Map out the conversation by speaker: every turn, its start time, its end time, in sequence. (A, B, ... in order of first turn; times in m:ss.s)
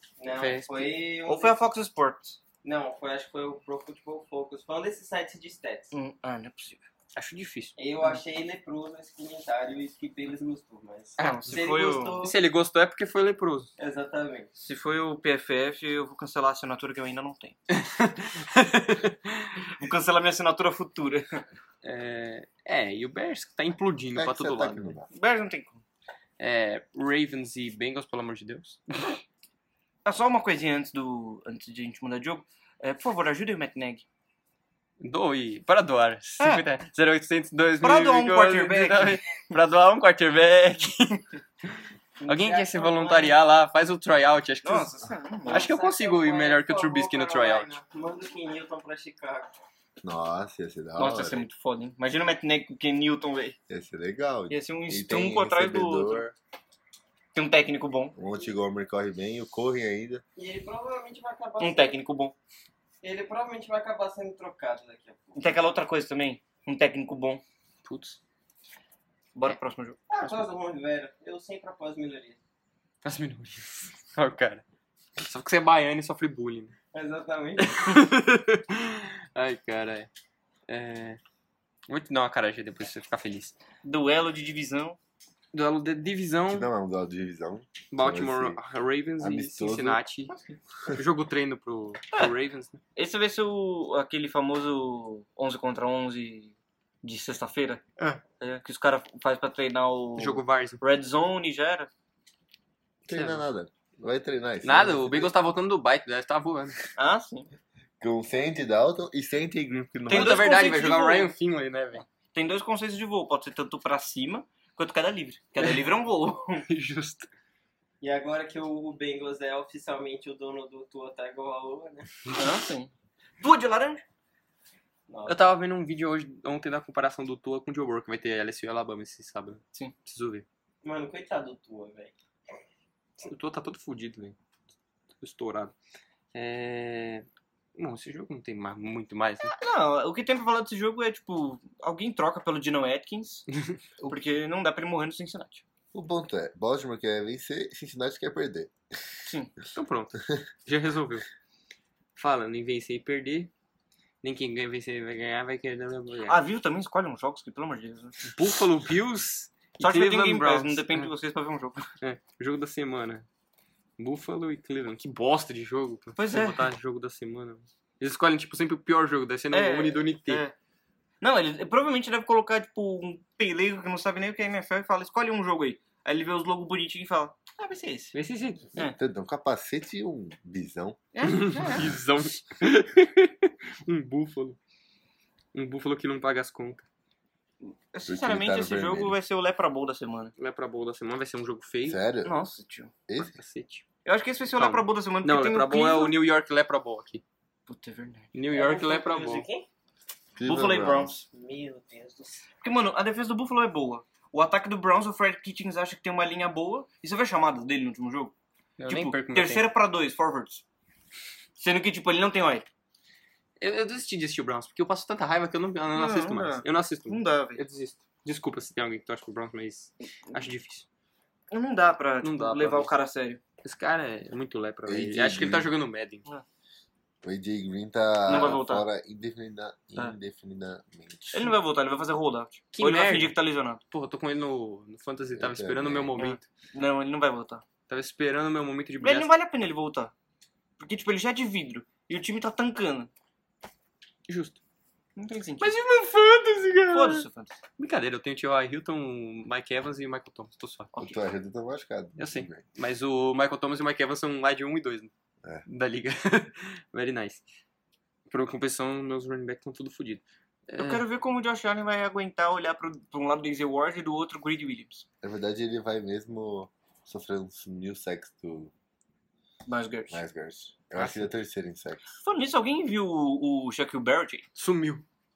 0:00.2-0:01.6 A
0:00.3-0:00.9 B
0:01.2-0:02.4 C
0:02.6-0:05.9 A
0:05.9-0:06.8 C
0:07.1-0:07.7 B
0:07.8-0:12.4 A
0:11.2-0:13.7 B
0:11.2-0:12.2 C
0:13.8-0:14.5 A
0:14.6-0:17.6 C
0:17.7-0:19.6 B
0:19.8-0:21.4 C
0:21.8-0:24.8 B
0:24.1-0:25.1 D
0:25.1-0:25.8 C
0:26.4-0:29.1 B
0:30.0-0:34.0 C
0:35.0-0:47.7 B
0:37.8-0:39.4 C
0:42.2-0:43.4 A
0:44.6-0:45.7 C
0:45.4-0:49.6 A
0:50.0-0:51.5 D
0:51.0-0:53.6 C
0:53.7-0:56.3 D
0:54.5-0:56.2 C
0:57.3-0:58.1 C
0:58.1-1:00.2 D
1:00.4-1:02.0 A
1:01.6-1:02.3 C
1:03.0-1:05.5 A
1:05.4-1:07.4 C
1:07.8-1:08.2 B
1:09.3-1:10.0 C
1:10.1-1:12.4 A
1:13.0-1:14.6 B
1:15.2-1:16.7 B
1:16.9-1:17.8 A
1:17.6-1:20.1 B
1:20.7-1:21.2 B
1:21.9-1:23.6 B
1:23.8-1:25.0 C
1:25.5-1:26.7 B
1:26.5-1:28.6 D
1:27.9-1:30.3 B
1:29.2-1:30.0 D
1:30.3-1:30.5 C
1:30.9-1:32.8 B
1:32.9-1:37.8 C
1:38.4-1:41.9 C
1:40.2-1:40.8 B
1:43.0-1:45.3 D
1:43.1-1:43.4 B
1:44.6-1:46.8 B
1:47.0-1:47.5 C
1:48.0-1:50.5 D
1:49.7-1:52.0 B
1:50.1-1:51.3 C
1:52.3-1:56.6 C
1:56.6-1:57.3 B
1:58.0-2:02.3 A
2:02.3-2:04.0 C
2:05.1-2:05.5 A
2:05.2-2:10.4 B
2:10.8-2:12.1 A
2:13.2-2:14.4 B
2:15.2-2:15.7 B
2:16.3-2:19.5 B
2:19.4-2:23.5 C
2:24.0-2:25.6 C
2:25.9-2:28.7 D
2:29.2-2:29.5 C
2:29.7-2:31.2 B
2:32.2-2:33.5 B
2:34.2-2:36.4 B
2:36.3-2:38.3 C
2:38.3-2:41.1 B
2:39.8-2:41.9 C
2:42.0-2:43.2 B
2:44.0-2:50.4 B
2:46.2-2:46.6 C
2:49.5-2:50.5 C
2:51.2-2:58.2 C
2:58.1-2:58.8 B
2:58.8-3:01.0 D
3:01.1-3:02.0 C
3:01.2-3:04.6 B
3:05.5-3:06.8 B
3:07.6-3:10.3 C
3:08.1-3:09.2 D
3:10.4-3:12.0 B
3:11.8-3:12.4 D
3:12.2-3:12.9 C
3:13.1-3:13.3 D
3:13.3-3:13.8 B
3:14.0-3:16.2 C
3:14.5-3:17.2 B
3:17.7-3:18.3 C
3:18.3-3:19.4 B
3:18.5-3:19.7 A
3:20.4-3:21.1 D
3:20.4-3:21.2 C
3:21.3-3:22.4 A
3:22.6-3:28.3 C
3:28.8-3:29.6 B
3:28.9-3:30.6 C
3:31.6-3:32.7 C
3:33.6-3:40.8 B
3:35.9-3:37.6 C
3:41.5-3:43.4 C
3:42.2-3:42.9 B
3:43.6-3:46.2 B
3:44.8-3:45.7 D
3:47.2-3:51.5 D
3:48.2-3:48.8 C
3:51.3-3:53.8 C
3:52.7-3:53.4 B
3:53.9-3:56.4 B
3:55.4-3:56.1 D
3:56.2-3:57.6 C
3:57.9-3:59.3 B
3:59.0-4:00.1 C
4:00.8-4:03.1 C
4:04.3-4:04.6 B
4:05.2-4:05.7 C
4:05.6-4:07.2 B
4:06.9-4:07.5 C
4:07.8-4:10.9 B
4:11.0-4:12.6 D
4:12.2-4:15.1 B
4:15.6-4:17.4 B
4:18.3-4:21.0 B
4:20.8-4:25.0 C
4:25.2-4:28.7 D
4:29.6-4:30.2 C
4:30.1-4:32.1 D
4:31.0-4:31.3 B
4:32.2-4:34.4 C
4:34.6-4:35.0 B